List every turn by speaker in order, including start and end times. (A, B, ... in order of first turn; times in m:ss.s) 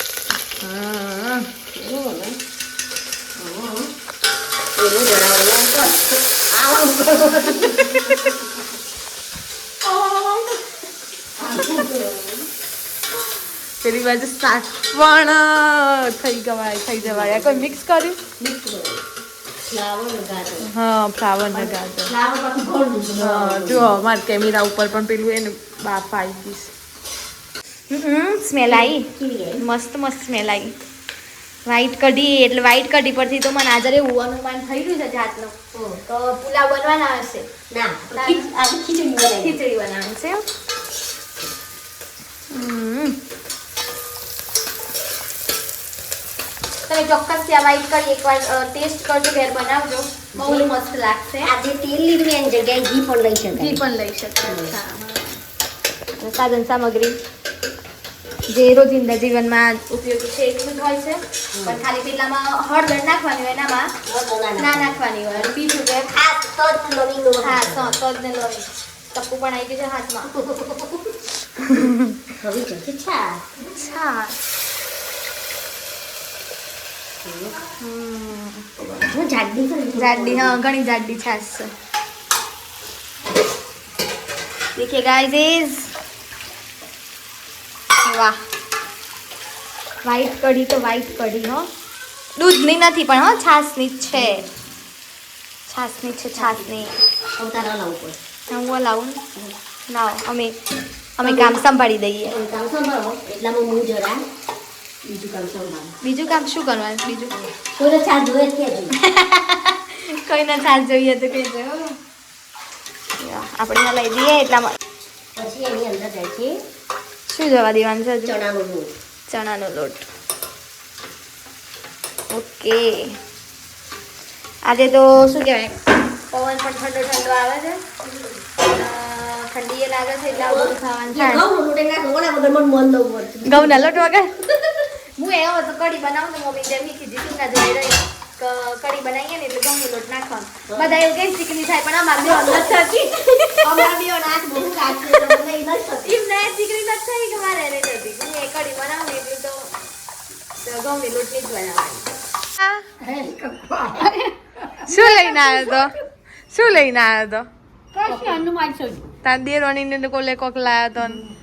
0:00.6-0:01.5 A
0:01.7-0:02.4 B
0:03.4-0:03.9 B
0:04.8-0:08.1 B
0:09.9-0:10.6 A
0:11.4-0:12.5 B
0:13.8-0:18.2 A
0:17.0-0:17.7 B
0:18.4-0:19.0 B
0:19.6-0:20.7 B
0:20.7-0:22.1 A
0:21.5-0:24.0 B
0:23.2-0:26.7 A
0:27.9-0:30.7 A
0:28.7-0:29.6 B
0:31.6-0:35.5 A
0:36.1-0:37.4 A
0:37.7-0:39.6 B
0:38.2-0:38.5 A
0:39.4-0:40.4 A
0:42.5-0:43.2 A
0:46.9-0:51.5 A
0:50.3-0:50.7 B
0:51.4-0:53.8 B
0:53.5-0:55.4 A
0:54.4-0:54.8 B
0:56.2-0:57.2 A
0:58.5-1:03.9 A
1:01.6-1:01.8 B
1:04.1-1:05.0 B
1:04.6-1:06.1 A
1:06.1-1:08.0 B
1:07.4-1:10.3 A
1:10.4-1:11.0 B
1:11.6-1:12.1 A
1:12.4-1:13.4 B
1:13.6-1:14.4 A
1:17.2-1:17.6 B
1:17.8-1:18.6 A
1:18.8-1:20.6 B
1:20.0-1:21.7 A
1:24.8-1:25.9 A
1:28.0-1:28.4 A
1:30.0-1:31.7 A
1:32.4-1:34.4 A
1:35.7-1:36.9 A
1:36.4-1:36.7 B
1:37.4-1:38.2 B
1:38.5-1:39.2 A
1:39.9-1:40.6 A
1:41.2-1:42.4 A
1:41.2-1:41.6 B
1:42.3-1:44.2 B
1:45.0-1:45.9 B
1:46.0-1:47.3 A
1:47.6-1:48.9 B
1:49.0-1:51.9 A
1:53.2-1:54.8 A
1:55.4-1:56.5 B
1:57.3-1:58.4 A
1:58.2-1:58.9 B
1:59.3-2:00.1 A
2:02.3-2:03.2 A
2:04.6-2:05.8 A
2:06.3-2:07.8 A
2:08.6-2:11.4 A
2:10.3-2:14.0 B
2:13.4-2:14.3 A
2:15.2-2:23.8 A
2:20.7-2:21.0 B
2:22.2-2:23.1 B
2:23.6-2:26.2 B
2:26.0-2:29.7 A
2:30.6-2:32.1 A
2:32.6-2:32.8 A
2:33.0-2:34.9 C
2:34.8-2:36.0 A
2:36.5-2:37.5 A
2:37.9-2:39.1 C
2:39.2-2:41.2 A